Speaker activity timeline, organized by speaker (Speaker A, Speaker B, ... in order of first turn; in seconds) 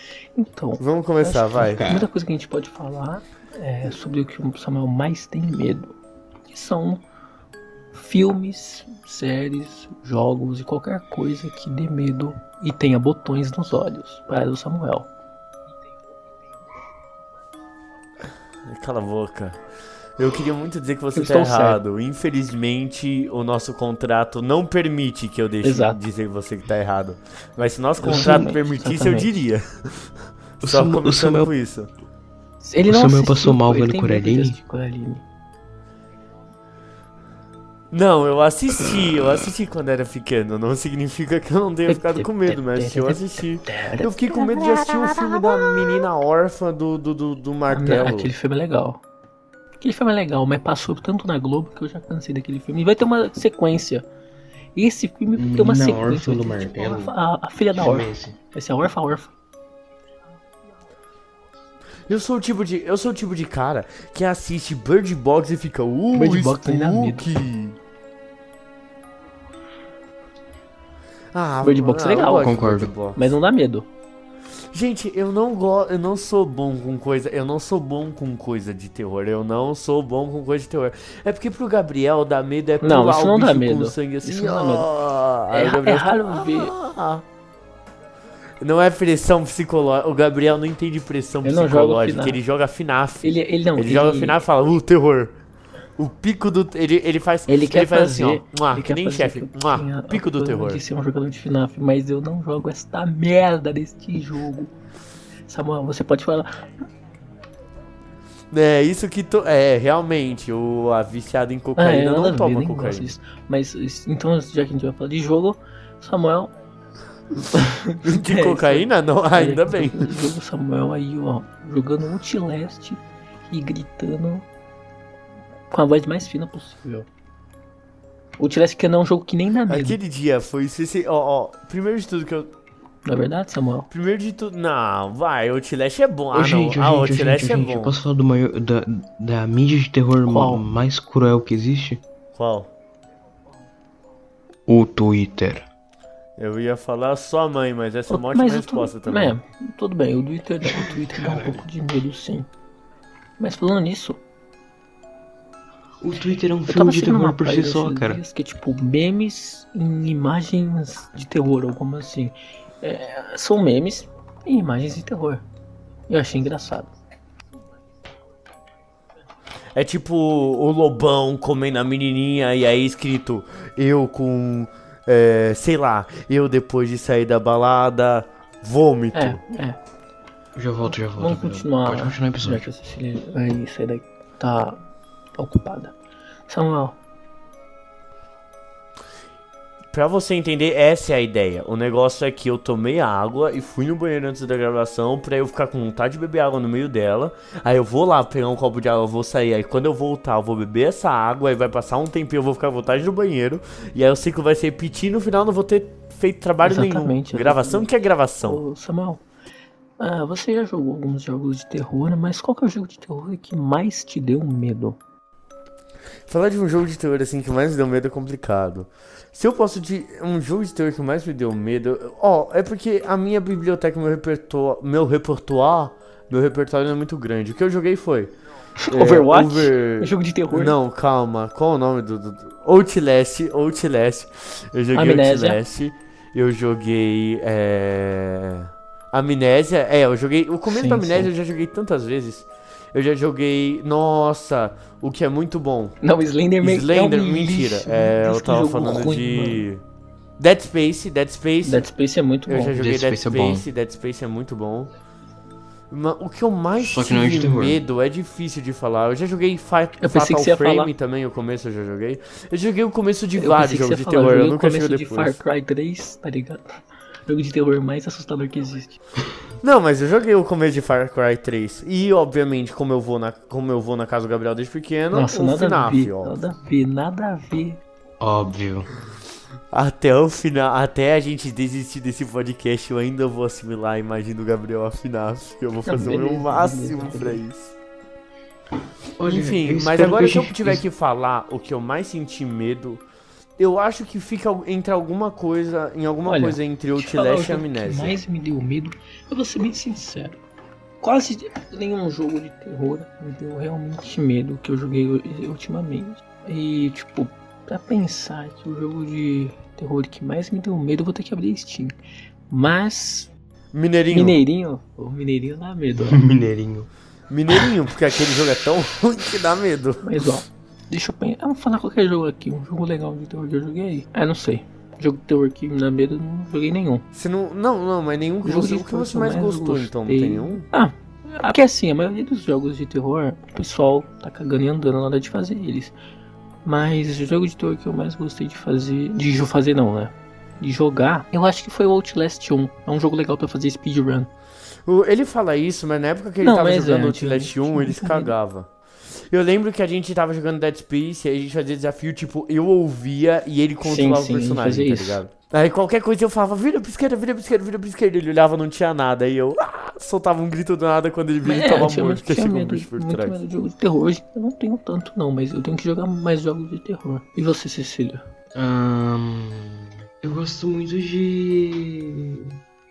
Speaker A: 0.4-5.9, 6.5-7.0, 7.9-15.1, 21.1-21.8, 25.6-26.0, 28.0-29.3, 32.6-35.2, 41.9-45.3, 47.7-49.0, 49.8-54.0, 54.8-59.3, 66.1-67.3, 71.6-72.5, 73.1-73.9, 82.8-84.9, 85.5-86.7, 91.4-92.4, 93.2-94.4, 97.5-104.7, 105.5-106.5, 111.8-116.5, 117.5-124.5, 125.7-127.1, 128.4-130.0, 133.1-133.9, 140.3-140.7, 148.1-152.5, 153.4-154.2, 156.7-165.4, 166.1-166.9, 179.1-179.8, 181.2-184.8, 185.4-185.9, 186.5-187.0, 206.6-207.9, 208.4-209.2, 210.0-215.0, 228.9-230.8, 234.9-235.6, 240.7-241.3, 246.0-249.7, 251.6-252.8, 260.0-260.9, 263.4-266.8, 267.3-269.0, 275.1-277.8, 285.9-287.4, 296.2-300.4, 301.0-311.9, 312.5-313.3, 314.1-316.2, 320.0-327.1, 328.4-335.9, 336.6-344.3, 346.4-348.3, 353.8-355.2, 361.4-368.2
Speaker B: 0.8-1.8, 18.7-19.6, 20.2-31.9, 37.9-48.3, 62.1-67.8, 71.3-73.3, 74.7-87.2, 88.6-95.3, 96.0-100.8, 108.5-113.1, 118.0-120.2, 129.7-132.5, 133.9-137.9, 142.3-142.7, 146.4-149.3, 169.8-179.4, 189.9-208.6, 216.3-228.3, 228.9-245.9, 246.6-249.8, 250.4-251.9, 252.5-254.9, 255.9-265.4, 269.6-276.3, 279.7-287.8, 289.3-293.0, 293.6-298.2, 313.7-314.4, 317.3-320.2, 327.1-330.7, 344.9-363.4
Speaker C: 1.6-2.1, 30.6-31.5, 32.9-34.6, 55.4-57.1, 57.8-58.4, 72.3-72.9, 136.3-142.0, 144.7-145.7, 150.7-151.6, 156.0-158.2, 180.6-182.6, 252.8-253.7, 256.8-257.8, 278.2-278.9, 289.2-290.8, 316.1-316.9, 368.6-372.6